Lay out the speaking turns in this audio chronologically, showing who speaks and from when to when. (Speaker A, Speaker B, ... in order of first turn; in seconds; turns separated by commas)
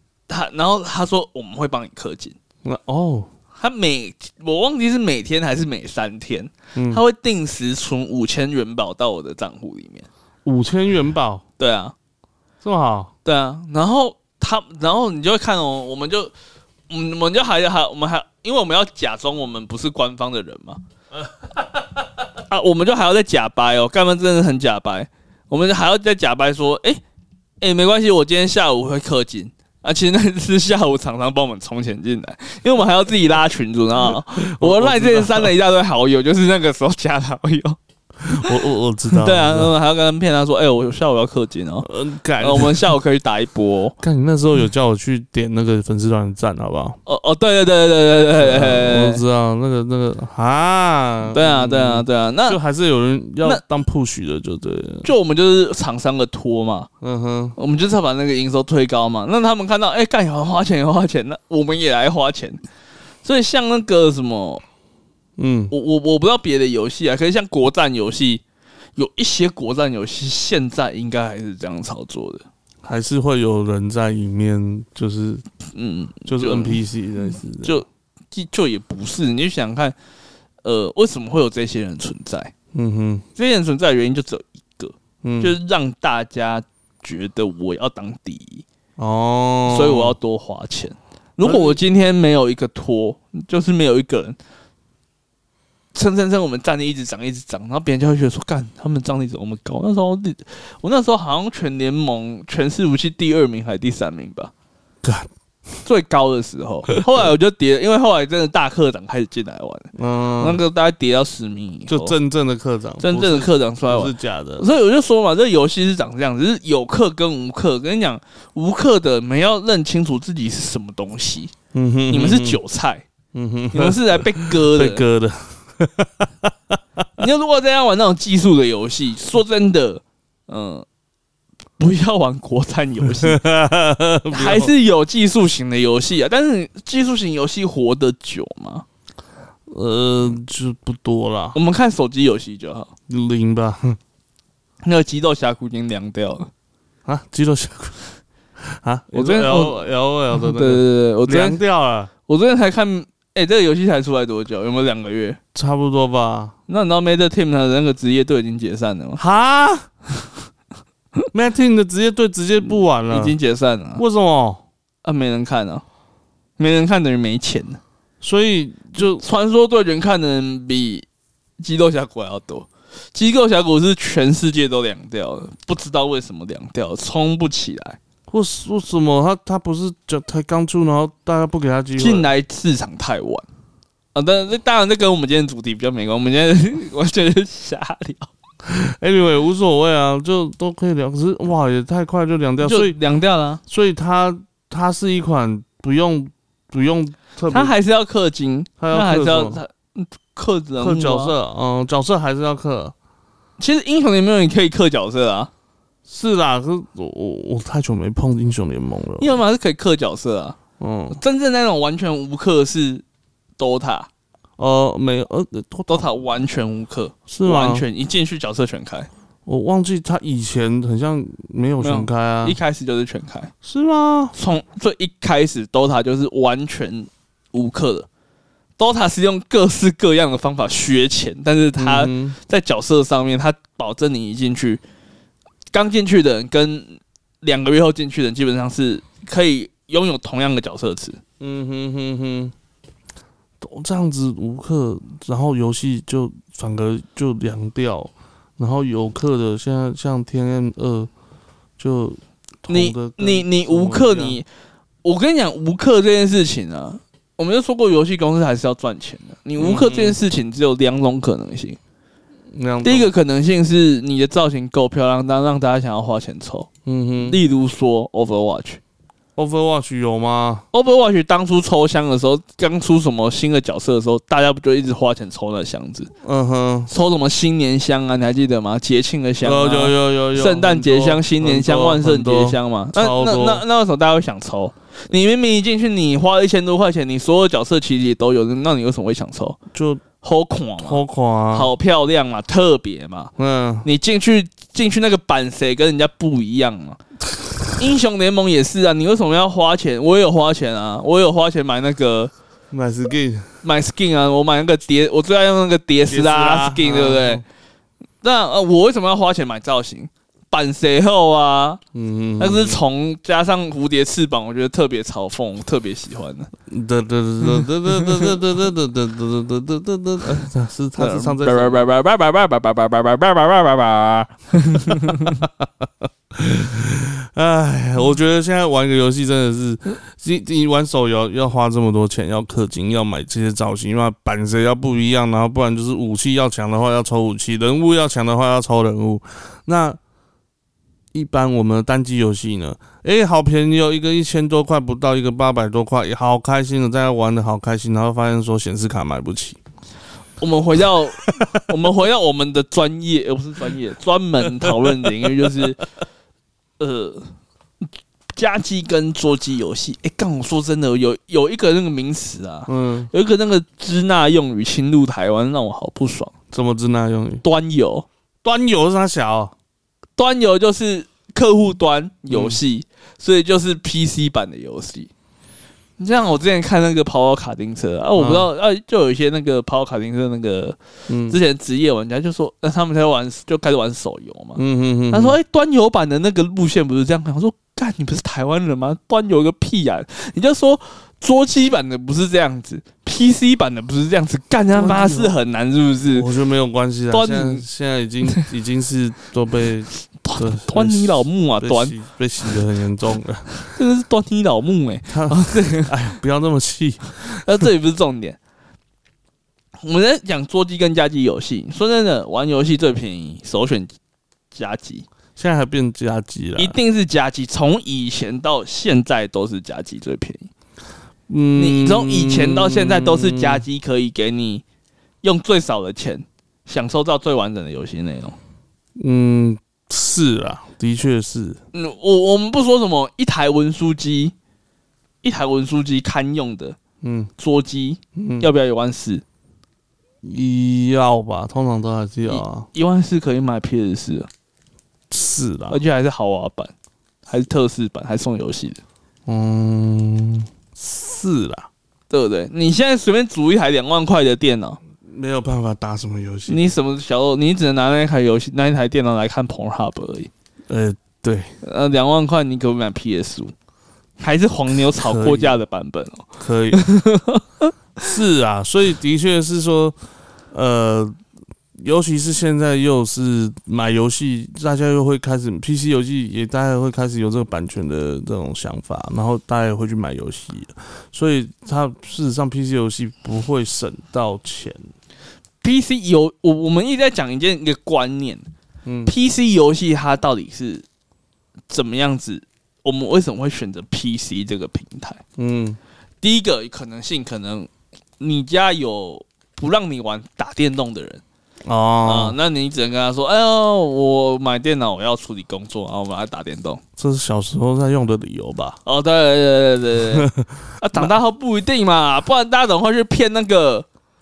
Speaker A: 0.3-2.4, Speaker B: 2.6-3.3, Speaker A: 3.5-10.1, Speaker B: 6.7-7.0, Speaker B: 10.4-11.4, Speaker A: 11.6-11.9, Speaker B: 12.6-13.1, Speaker A: 13.2-16.3, Speaker A: 16.9-20.8, Speaker A: 22.4-27.0, Speaker A: 27.6-37.8, Speaker B: 34.0-35.5, Speaker B: 38.2-39.7, Speaker A: 39.1-41.9, Speaker B: 41.8-42.9, Speaker A: 42.4-44.0, Speaker B: 44.0-47.0, Speaker A: 47.0-49.2, Speaker B: 48.4-55.1, Speaker A: 51.3-52.6, Speaker A: 55.0-56.9, Speaker B: 57.0-57.5, Speaker A: 57.6-62.6, Speaker A: 63.2-64.6, Speaker B: 65.4-65.7, Speaker A: 65.7-68.4, Speaker A: 69.0-72.4, Speaker B: 72.8-75.4, Speaker A: 75.7-76.8, Speaker B: 76.3-77.8, Speaker A: 77.6-80.0, Speaker A: 80.6-82.5, Speaker B: 82.7-83.2, Speaker A: 83.3-88.6, Speaker B: 85.2-85.5, Speaker B: 89.0-90.2, Speaker A: 89.7-94.4, Speaker B: 91.4-91.8, Speaker A: 95.9-104.5, Speaker B: 105.0-105.3, Speaker A: 105.8-112.2, Speaker B: 110.0-110.6, Speaker B: 111.9-114.7, Speaker A: 113.0-121.5, Speaker B: 121.7-122.6, Speaker A: 122.1-123.0, Speaker B: 123.3-126.8, Speaker A: 123.7-125.0, Speaker A: 127.2-130.8, Speaker A: 131.8-133.4, Speaker B: 133.0-134.7, Speaker A: 134.3-138.8, Speaker B: 139.7-141.6, Speaker A: 141.5-142.9, Speaker B: 143.1-144.0, Speaker A: 144.8-146.5, Speaker B: 147.1-148.1, Speaker B: 148.6-152.1, Speaker A: 149.1-151.6, Speaker A: 152.3-155.4, Speaker B: 155.5-156.5, Speaker A: 156.7-159.2, Speaker B: 159.2-159.9, Speaker B: 161.3-163.3, Speaker A: 162.6-164.0, Speaker B: 164.0-164.6, Speaker A: 165.0-165.8, Speaker A: 166.6-167.8, Speaker B: 168.2-169.2, Speaker A: 168.9-171.1, Speaker A: 171.6-178.0, Speaker B: 178.3-182.3, Speaker A: 182.0-183.4, Speaker A: 184.1-188.3, Speaker B: 188.7-192.9, Speaker A: 192.6-193.6, Speaker B: 193.7-197.7, Speaker A: 197.5-201.3, Speaker B: 198.8-199.6, Speaker B: 200.8-202.9, Speaker A: 203.6-205.5, Speaker B: 206.1-209.4, Speaker A: 209.2-210.6, Speaker B: 210.8-211.2, Speaker A: 211.1-213.0, Speaker A: 213.6-214.1, Speaker B: 214.6-216.1, Speaker A: 215.9-219.1, Speaker B: 217.3-217.8, Speaker B: 219.4-222.6, Speaker A: 221.8-223.5, Speaker B: 223.6-224.3, Speaker A: 224.3-228.1, Speaker A: 228.8-234.8, Speaker B: 231.8-232.4, Speaker A: 235.7-241.2, Speaker B: 241.4-242.5, Speaker B: 243.6-251.1, Speaker B: 251.8-254.4, Speaker A: 252.7-254.4, Speaker A: 255.0-261.8, Speaker B: 259.6-260.2, Speaker B: 262.5-263.1, Speaker A: 262.8-266.7, Speaker B: 266.9-267.4, Speaker A: 267.2-268.8, Speaker B: 269.4-270.6, Speaker A: 270.7-276.1, Speaker B: 276.2-276.9, Speaker A: 276.9-289.6, Speaker B: 279.4-283.6, Speaker B: 289.7-290.0, Speaker A: 290.2-291.0, Speaker B: 290.8-291.7, Speaker A: 291.5-293.3, Speaker B: 293.4-293.9, Speaker A: 293.8-297.0, Speaker A: 297.8-302.3, Speaker B: 302.7-303.5, Speaker A: 303.6-307.4, Speaker B: 306.1-307.4, Speaker A: 308.2-311.8, Speaker B: 311.9-312.8, Speaker A: 312.4-316.5, Speaker B: 316.7-321.8, Speaker A: 317.4-318.4, Speaker A: 321.0-325.4, Speaker B: 324.9-340.0, Speaker B: 341.1-349.6, Speaker A: 350.4-355.8, Speaker B: 354.6-355.7, Speaker A: 356.8-357.3, Speaker A: 358.3-366.3, Speaker B: 362.7-363.1, Speaker B: 366.5-367.4, Speaker A: 367.4-368.1, Speaker B: 368.4-369.5, Speaker A: 370.2-375.1, Speaker B: 372.3-372.6, Speaker A: 376.0-396.3, Speaker B: 378.2-378.5, Speaker B: 381.1-381.4, Speaker B: 384.6-385.4, Speaker B: 394.7-395.4, Speaker B: 396.1-403.5, Speaker A: 397.1-397.6, Speaker A: 400.2-401.9, Speaker A: 403.6-406.1, Speaker B: 405.1-407.7, Speaker A: 407.2-408.4, Speaker A: 409.8-413.9, Speaker A: 414.5-415.1, Speaker B: 415.4-416.8, Speaker A: 416.6-420.5, Speaker B: 421.3-423.6, Speaker A: 421.6-424.6, Speaker A: 425.2-428.4, Speaker B: 429.0-431.6, Speaker A: 431.7-434.3, Speaker A: 435.2-436.8, Speaker B: 437.0-437.3, Speaker A: 437.4-439.2, Speaker B: 438.1-438.5, Speaker B: 440.2-442.7, Speaker A: 442.3-444.3, Speaker B: 445.1-445.8, Speaker A: 445.7-446.7, Speaker A: 447.2-448.8, Speaker B: 449.3-451.7, Speaker A: 452.1-454.8, Speaker B: 455.0-456.6, Speaker A: 456.5-460.3, Speaker B: 460.7-461.5, Speaker A: 461.6-463.5, Speaker A: 464.2-467.7, Speaker B: 464.9-465.6, Speaker B: 466.4-466.8, Speaker B: 468.0-469.9, Speaker B: 470.5-471.1, Speaker B: 471.8-484.8, Speaker A: 485.6-488.4, Speaker B: 488.8-489.1, Speaker A: 489.1-490.8, Speaker A: 491.7-495.2, Speaker B: 495.4-495.8, Speaker A: 496.2-501.2, Speaker B: 501.6-502.4, Speaker A: 502.1-506.8, Speaker B: 507.0-508.8, Speaker A: 508.8-510.3, Speaker B: 510.1-511.1, Speaker A: 510.8-513.9